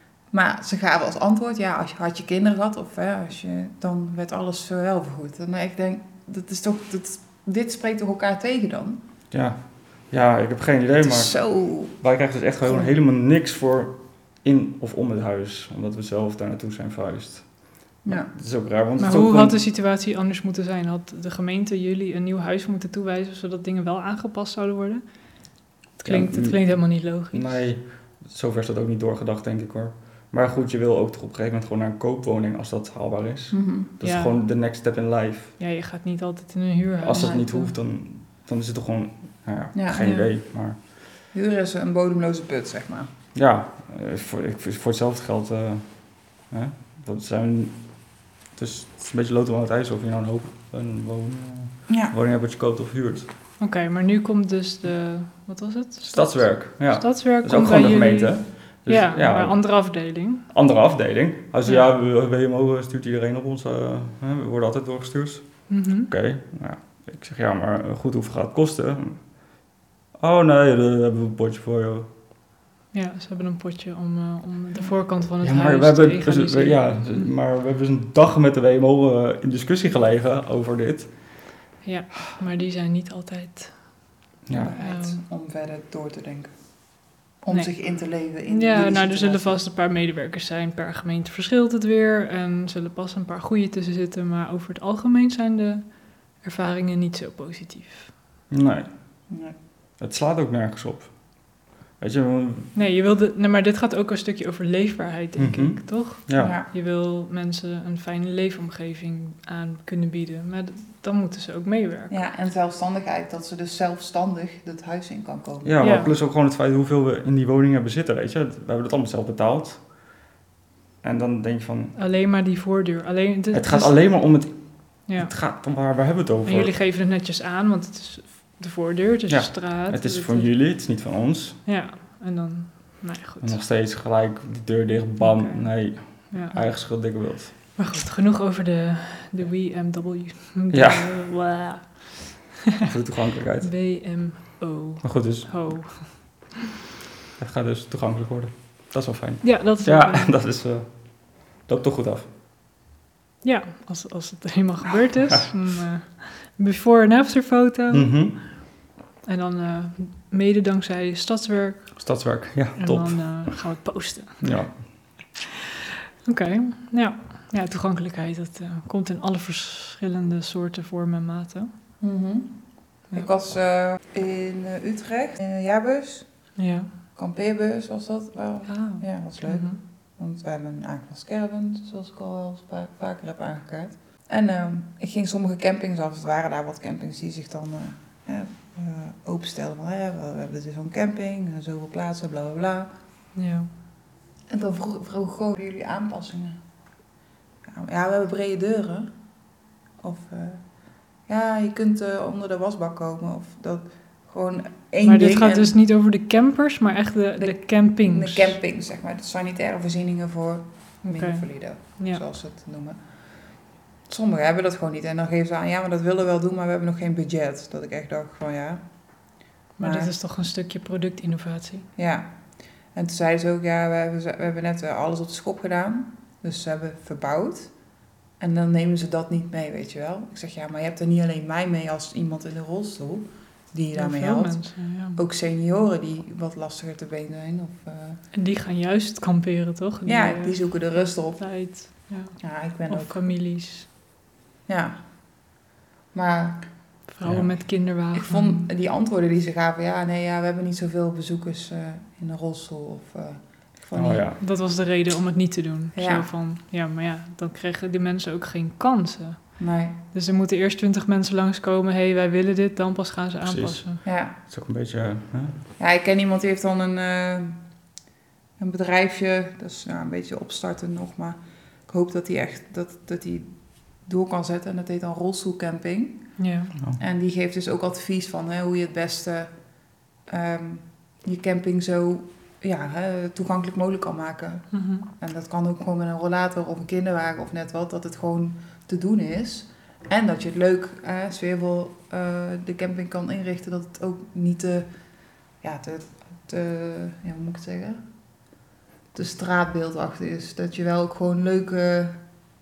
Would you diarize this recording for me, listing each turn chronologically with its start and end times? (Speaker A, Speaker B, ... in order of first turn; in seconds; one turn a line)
Speaker A: 0.3-9.0
Speaker B: 9.3-19.6
Speaker A: 11.0-12.0
Speaker A: 12.6-12.9
Speaker A: 18.0-18.3
Speaker C: 19.0-27.6
Speaker B: 26.0-35.6
Speaker A: 33.5-33.9
Speaker C: 34.0-34.4
Speaker C: 35.6-37.7
Speaker B: 37.0-40.9
Speaker A: 39.7-40.0
Speaker C: 40.0-40.3
Speaker A: 41.3-43.1
Speaker B: 43.3-53.3
Speaker A: 51.9-52.1
Speaker C: 53.6-60.4
Speaker B: 56.0-69.6
Speaker C: 65.7-66.1
Speaker B: 70.1-72.1
Speaker C: 72.9-77.3
Speaker B: 75.4-81.6
Speaker C: 81.8-84.0
Speaker B: 84.5-84.7
Speaker A: 84.5-86.5
Speaker C: 84.8-85.2
Speaker A: 87.4-89.6
Speaker C: 88.4-98.1
Speaker B: 98.5-98.9
Speaker A: 99.3-99.5
Speaker B: 100.0-102.7
Speaker C: 102.7-112.3
Speaker B: 105.4-106.5
Speaker A: 106.4-106.7
Speaker A: 112.1-116.0
Speaker B: 115.6-120.1
Speaker C: 115.8-116.1
Speaker B: 121.0-122.0
Speaker C: 121.9-124.2
Speaker B: 123.5-126.7
Speaker C: 125.1-125.3
Speaker C: 126.4-130.5
Speaker B: 129.3-131.6
Speaker C: 131.6-133.6
Speaker B: 133.4-137.5
Speaker C: 135.2-137.1
Speaker C: 137.7-142.3
Speaker B: 140.7-141.3
Speaker B: 142.8-144.3
Speaker C: 143.6-146.4
Speaker B: 145.0-146.1
Speaker B: 147.3-152.3
Speaker C: 149.4-150.3
Speaker C: 153.4-158.4
Speaker B: 157.9-158.5
Speaker C: 159.2-162.1
Speaker B: 161.9-163.7
Speaker C: 162.8-165.0
Speaker B: 164.4-165.2
Speaker C: 166.2-171.7
Speaker A: 172.0-176.6
Speaker C: 176.6-176.9
Speaker A: 177.1-192.9
Speaker C: 178.7-179.8
Speaker C: 193.3-193.7
Speaker A: 194.5-196.6
Speaker A: 197.7-199.1
Speaker A: 200.0-200.6
Speaker A: 201.2-205.7
Speaker C: 205.0-208.6
Speaker A: 207.4-213.1
Speaker C: 211.0-212.2
Speaker A: 214.1-218.8
Speaker C: 219.8-221.8
Speaker A: 219.8-220.1
Speaker A: 221.9-222.4
Speaker A: 222.9-227.7
Speaker A: 228.4-238.2
Speaker C: 233.9-235.2
Speaker C: 238.3-240.8
Speaker A: 240.0-241.6
Speaker C: 241.3-243.9
Speaker A: 242.4-243.2
Speaker A: 244.7-245.1
Speaker A: 246.1-246.7
Speaker C: 247.1-248.7
Speaker B: 247.2-247.5
Speaker A: 248.1-254.3
Speaker B: 253.9-254.4
Speaker C: 254.4-264.0
Speaker A: 255.9-256.3
Speaker A: 259.6-260.0
Speaker B: 263.4-265.6
Speaker A: 264.0-264.3
Speaker A: 265.8-267.6
Speaker A: 268.6-276.4
Speaker C: 276.4-276.7
Speaker A: 277.0-279.7
Speaker A: 280.2-294.9
Speaker C: 284.7-285.1
Speaker A: 295.6-298.0
Speaker A: 299.1-302.2